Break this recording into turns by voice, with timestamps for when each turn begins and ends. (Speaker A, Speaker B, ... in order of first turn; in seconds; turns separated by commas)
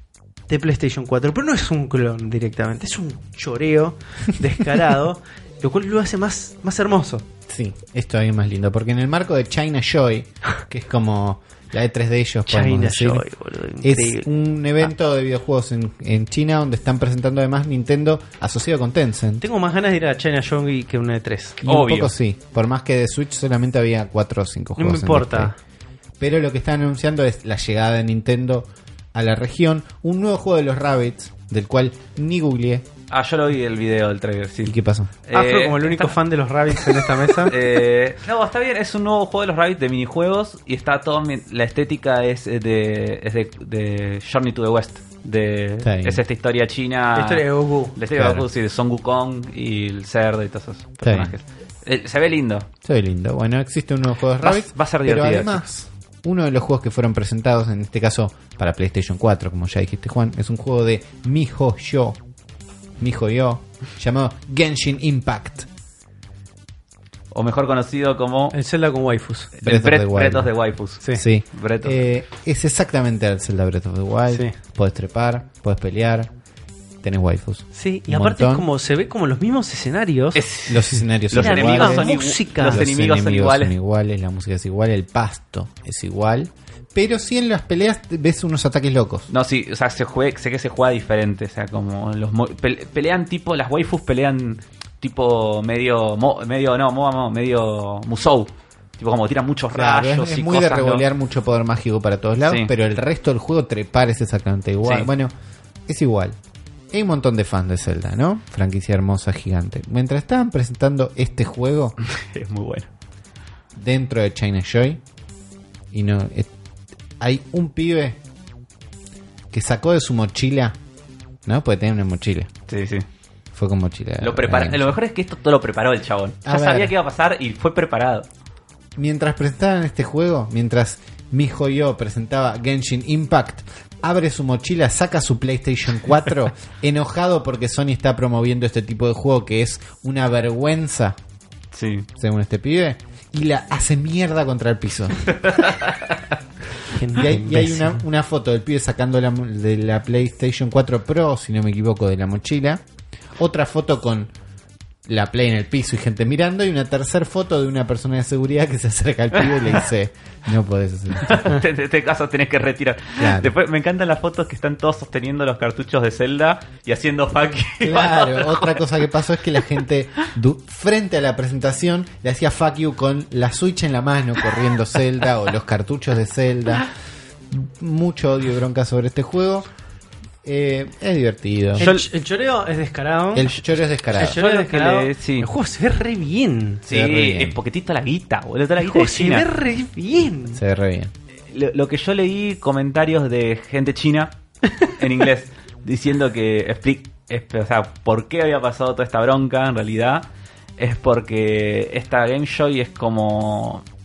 Speaker A: 0.5-7.3, Speaker B: 7.5-13.3, Speaker A: 12.5-14.3, Speaker B: 13.8-19.4, Speaker A: 19.4-21.6, Speaker B: 21.6-25.5, Speaker C: 21.6-22.1, Speaker A: 24.8-25.6, Speaker B: 26.2-32.9, Speaker C: 33.1-36.2, Speaker B: 34.6-35.1, Speaker A: 35.3-37.6, Speaker C: 36.7-52.7, Speaker B: 45.8-46.2, Speaker A: 47.1-48.0, Speaker B: 48.1-48.5, Speaker B: 51.0-51.3, Speaker B: 52.8-62.2, Speaker C: 54.4-55.6, Speaker B: 63.0-65.7, Speaker C: 67.3-68.6, Speaker A: 68.5-69.5, Speaker C: 69.6-72.0, Speaker B: 69.6-70.5, Speaker B: 71.1-76.3, Speaker B: 77.0-78.7, Speaker A: 77.7-80.4, Speaker C: 80.3-83.7, Speaker B: 80.7-89.3, Speaker A: 81.4-82.9, Speaker C: 89.3-101.0, Speaker B: 99.7-105.3, Speaker C: 104.8-105.1, Speaker B: 105.9-106.4, Speaker B: 106.9-112.0, Speaker C: 112.0-112.9, Speaker B: 113.8-115.0, Speaker B: 115.9-116.5, Speaker B: 117.2-118.2, Speaker B: 119.5-120.8, Speaker B: 121.5-122.5, Speaker C: 122.7-123.1, Speaker B: 123.5-124.9, Speaker C: 124.2-128.3, Speaker B: 126.5-126.9, Speaker B: 129.0-141.2, Speaker C: 141.7-142.1, Speaker B: 142.2-145.7, Speaker C: 145.3-146.3, Speaker A: 146.9-148.0, Speaker B: 147.1-152.8, Speaker B: 153.4-154.3, Speaker B: 155.1-161.6, Speaker C: 161.2-168.9, Speaker B: 163.2-163.5, Speaker B: 167.8-176.9, Speaker B: 177.5-179.7, Speaker B: 180.4-181.9, Speaker A: 181.8-183.5, Speaker C: 181.8-182.1, Speaker B: 183.3-184.4, Speaker C: 184.1-185.5, Speaker A: 184.2-186.8, Speaker C: 186.9-189.5, Speaker B: 186.9-187.6, Speaker A: 188.8-190.6, Speaker B: 190.6-191.1, Speaker C: 191.5-200.2, Speaker C: 200.8-203.8